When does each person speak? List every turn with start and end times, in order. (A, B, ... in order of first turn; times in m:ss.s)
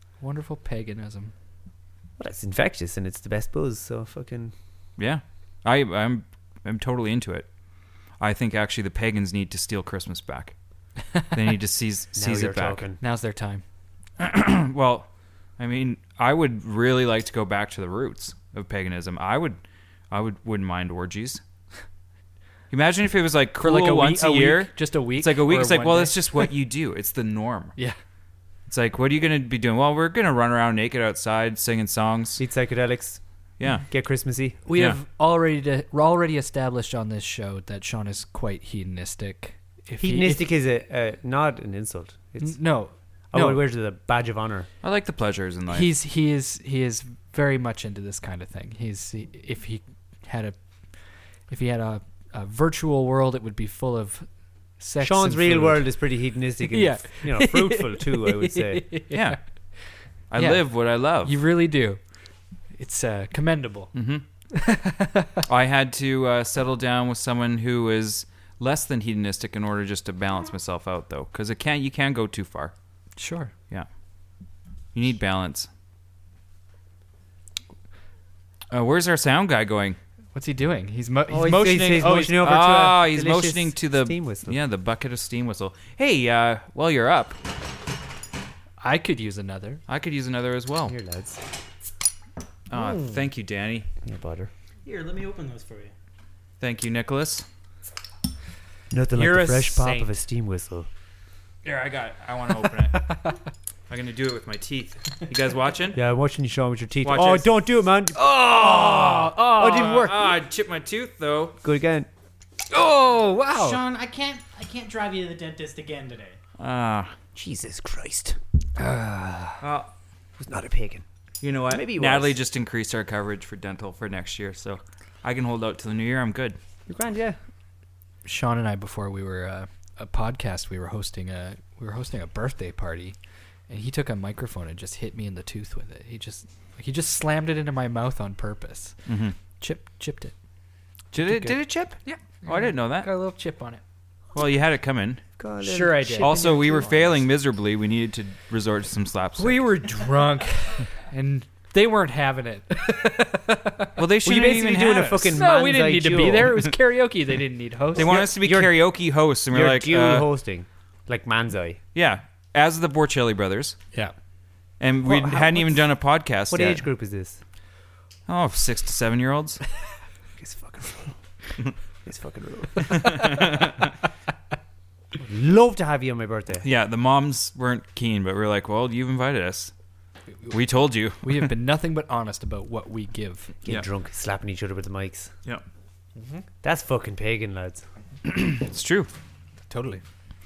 0:00.2-0:01.3 A
0:02.2-0:04.5 B
0:05.0-0:12.8 C
0:12.2-0:13.0 B
0:13.0-0:13.6 A
0:14.2-0:21.4 C
0:22.7-0:27.8 C
0:23.6-0:26.5 A
0:28.7-0:32.4 C
0:32.4-0:33.2 B
0:33.6-0:33.9 C
0:33.9-0:34.6 B
0:34.6-0:40.5 A
0:34.7-0:35.0 C
0:40.0-0:42.6 B
0:42.4-0:43.6 A
0:43.3-0:44.7 B
0:44.8-0:45.9 C
0:45.7-0:56.0 A
0:55.0-0:59.0 B
0:56.7-1:04.0 A
0:59.1-0:59.8 C
1:00.3-1:01.3 C
1:03.9-1:04.2 C
1:04.5-1:05.4 A
1:05.5-1:12.7 C
1:13.2-1:13.5 A
1:14.9-1:15.7 C
1:18.7-1:20.0 C
1:20.4-1:22.4 A
1:21.3-1:24.6 B
1:22.4-1:27.4 C
1:28.8-1:29.8 A
1:29.9-1:31.0 C
1:30.9-1:31.4 B
1:32.7-1:33.9 C
1:34.0-1:34.5 B
1:34.8-1:35.9 D
1:36.6-1:37.5 C
1:38.9-1:40.9 B
1:39.2-1:40.1 A
1:41.6-1:43.4 C
1:43.9-1:46.0 C
1:46.0-1:50.4 B
1:47.0-1:47.5 C
1:48.2-1:51.6 C
1:49.1-1:49.9 A
1:51.6-1:52.1 B
1:52.7-1:53.8 A
1:53.5-1:56.4 D
1:56.6-1:57.2 C
1:57.4-1:58.4 B
1:58.8-1:59.6 A
1:59.6-1:59.9 C
2:00.4-2:01.0 B
2:01.4-2:06.6 C
2:01.6-2:02.4 B
2:06.9-2:07.4 B
2:08.2-2:13.2 A
2:13.7-2:20.4 A
2:19.1-2:19.4 C
2:21.1-2:23.1 C
2:21.2-2:23.8 A
2:24.4-2:25.3 C
2:25.4-2:27.2 B
2:25.6-2:26.4 A
2:26.2-2:29.6 C
2:29.4-2:34.0 A
2:34.0-2:35.4 C
2:34.2-2:36.6 B
2:35.3-2:38.1 A
2:38.0-2:40.3 C
2:38.0-2:41.8 B
2:41.9-2:43.8 C
2:44.8-2:46.8 C
2:45.0-2:45.9 B
2:46.5-2:47.4 B
2:48.3-2:49.6 C
2:50.4-2:51.2 B
2:52.0-2:53.3 B
2:52.9-2:53.8 C
2:55.2-2:56.7 B
2:56.6-2:59.7 C
3:00.5-3:01.5 C
3:01.2-3:03.5 A
3:03.6-3:05.4 B
3:06.2-3:06.4 A
3:06.6-3:07.9 B
3:08.3-3:09.1 C
3:09.7-3:10.0 A